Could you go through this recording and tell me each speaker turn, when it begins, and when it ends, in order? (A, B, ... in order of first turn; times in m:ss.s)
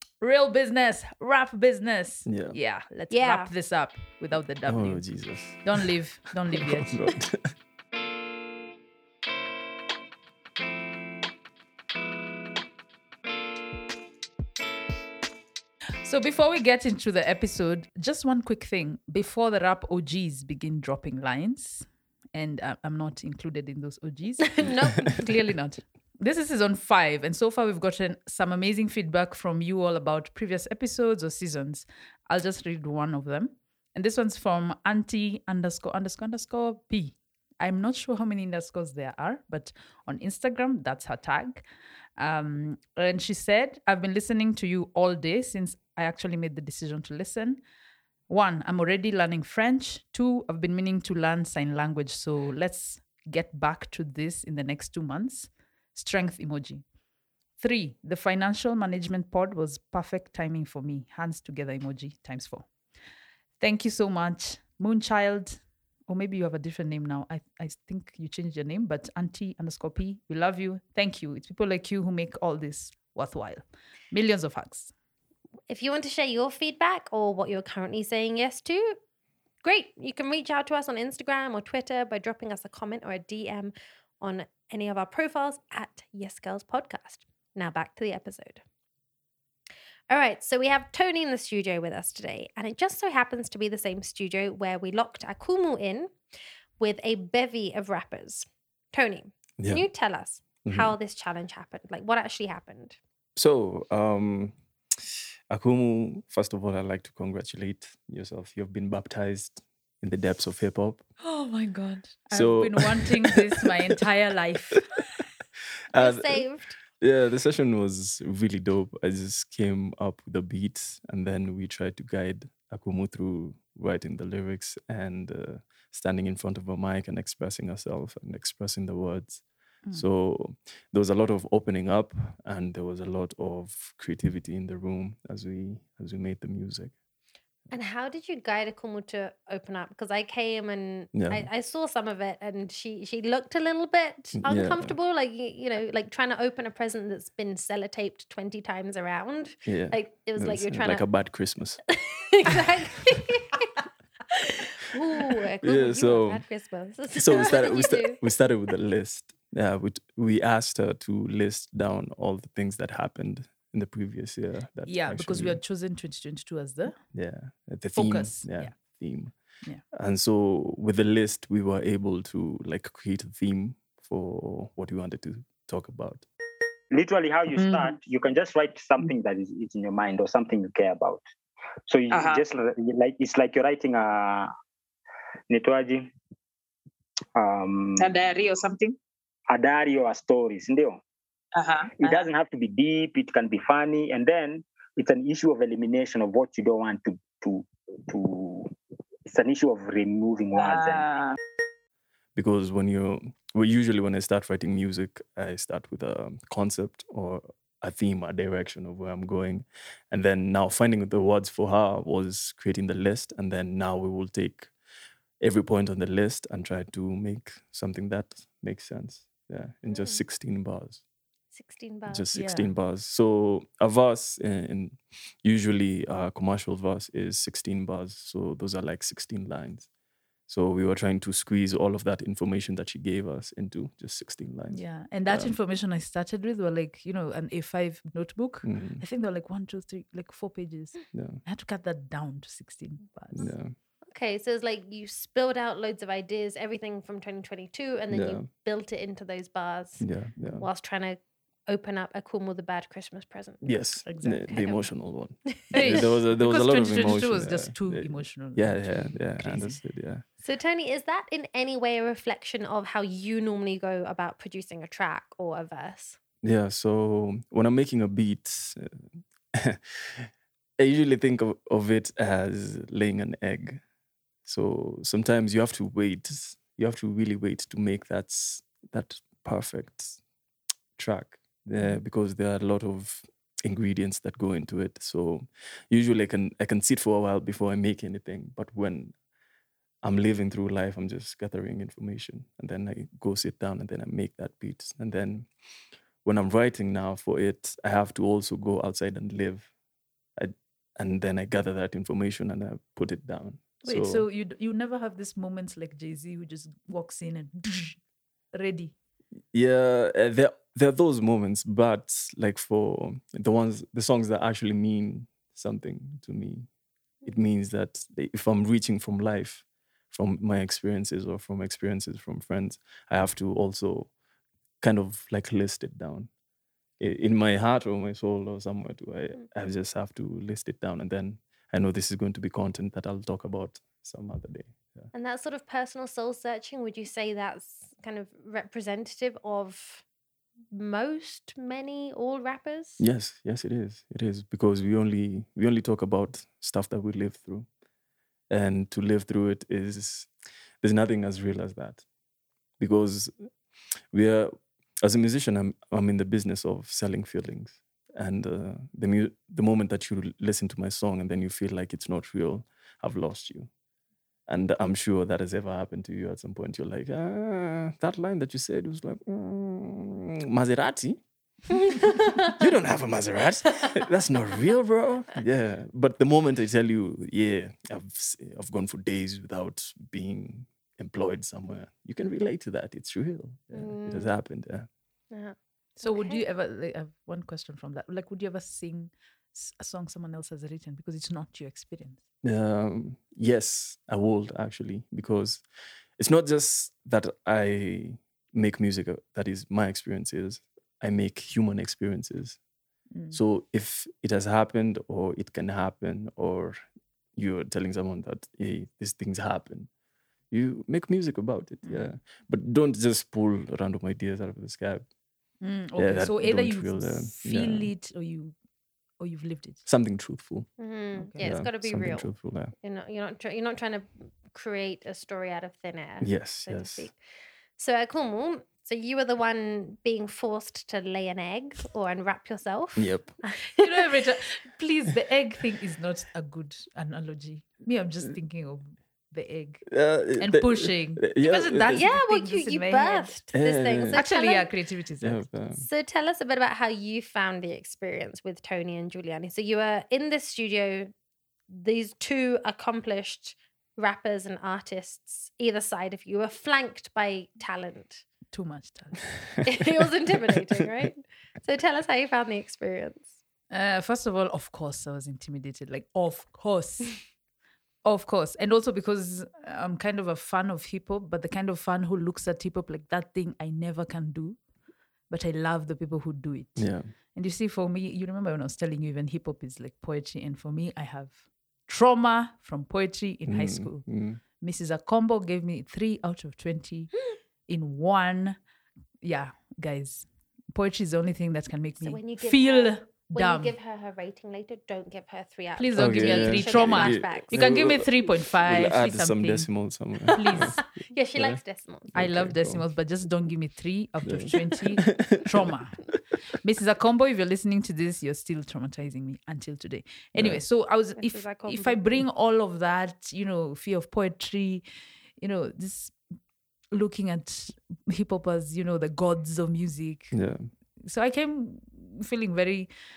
0:00.2-0:07.0 A
0:02.3-0:02.6 B
0:03.1-0:03.5 C
0:04.7-0:05.8 B
0:06.5-0:07.5 B
0:16.0-0:41.6 A
0:24.6-0:25.3 C
0:42.2-0:47.6 A
0:48.3-0:56.9 A
0:57.6-1:02.7 A
1:03.6-1:14.9 A
1:15.7-1:19.0 C
1:19.6-1:28.6 C
1:30.1-1:36.2 C
1:36.8-1:43.0 C
1:39.6-1:39.8 B
1:40.6-1:41.0 B
1:43.4-1:51.0 B
1:51.2-1:55.0 A
1:52.3-1:53.4 B
1:55.9-1:56.8 C
1:55.9-2:16.9 B
2:17.7-2:31.1 C
2:21.1-2:21.5 B
2:24.4-2:25.0 B
2:29.7-2:31.8 B
2:32.0-2:33.9 C
2:34.6-2:38.2 C
2:35.6-2:36.4 B
2:37.2-2:45.6 B
2:44.9-2:47.0 A
2:47.1-2:49.4 B
2:48.0-2:48.8 A
2:49.9-2:56.2 B
2:56.9-3:01.2 D
2:57.5-2:57.9 E
3:01.9-3:04.5 D
3:02.1-3:02.4 E
3:05.5-3:06.1 D
3:07.4-3:08.4 D
3:08.0-3:09.0 E
3:09.5-3:11.0 D
3:11.6-3:12.3 E
3:12.0-3:18.7 D
3:19.3-3:21.1 D
3:20.6-3:21.4 E
3:22.4-3:34.7 B
3:35.4-3:41.0 B
3:39.9-3:40.2 C
3:41.5-3:42.3 C
3:42.1-3:49.9 B
3:42.3-3:42.7 A
3:50.5-3:55.5 B
3:54.7-4:03.5 A
3:58.6-3:59.0 B
4:01.1-4:01.4 B
4:03.4-4:03.7 B
4:04.1-4:13.8 C
4:08.1-4:08.4 B
4:10.0-4:10.7 B
4:13.6-4:20.2 B
4:14.0-4:14.5 A
4:14.5-4:14.8 C
4:15.7-4:16.1 C
4:15.7-4:19.8 A
4:20.4-4:26.2 C
4:26.4-4:33.8 B
4:34.4-4:40.2 B
4:41.0-4:49.2 B
4:50.0-4:55.5 B
4:56.2-4:59.7 B
5:00.4-5:04.2 B
5:03.8-5:08.0 A
5:08.5-5:08.9 A
5:09.5-5:16.7 B
5:17.2-5:24.1 B
5:24.8-5:26.3 B
5:27.0-5:35.1 B
5:35.1-5:40.0 C
5:40.7-5:43.0 C
5:43.0-5:47.7 B
5:48.5-5:52.1 B
5:52.8-5:53.5 B
5:54.1-6:03.7 B
6:04.5-6:11.2 B
6:11.9-6:12.6 C
6:12.5-6:24.9 B
6:23.7-6:24.3 C
6:25.3-6:26.4 C
6:26.0-6:32.2 A
6:32.4-6:35.6 B
6:36.2-6:42.6 B
6:43.1-6:43.4 A
6:43.3-6:46.8 B
6:47.4-6:49.9 B
6:50.5-6:55.1 B
6:51.8-6:52.1 A
6:55.6-6:58.6 A
6:56.0-6:57.9 B
6:59.2-6:59.9 A
6:59.9-7:00.7 B
7:00.8-7:07.2 C
7:01.2-7:01.4 A
7:01.4-7:02.7 B
7:06.2-7:07.1 B
7:07.8-7:13.9 C
7:13.0-7:13.4 B
7:13.8-7:23.4 A
7:19.9-7:22.1 B
7:21.9-7:24.7 C
7:23.5-7:24.2 B
7:24.1-7:25.5 A
7:25.2-7:25.8 B
7:25.8-7:31.1 C
7:31.7-7:38.3 C
7:38.5-7:39.3 A
7:39.6-7:43.3 C
7:43.7-7:47.3 A
7:48.0-7:54.7 A
7:55.3-8:07.1 A
7:56.8-7:57.1 B
8:03.5-8:04.4 B
8:07.7-8:08.6 A
8:09.2-8:13.8 A
8:12.0-8:17.9 C
8:15.8-8:20.8 A
8:16.0-8:22.9 B
8:20.5-8:22.1 C
8:22.1-8:34.8 A
8:24.2-8:25.7 B
8:30.4-8:30.6 B
8:31.2-8:32.2 C
8:35.4-8:36.2 A
8:36.9-8:40.5 A
8:40.3-8:40.7 B
8:41.0-8:42.9 A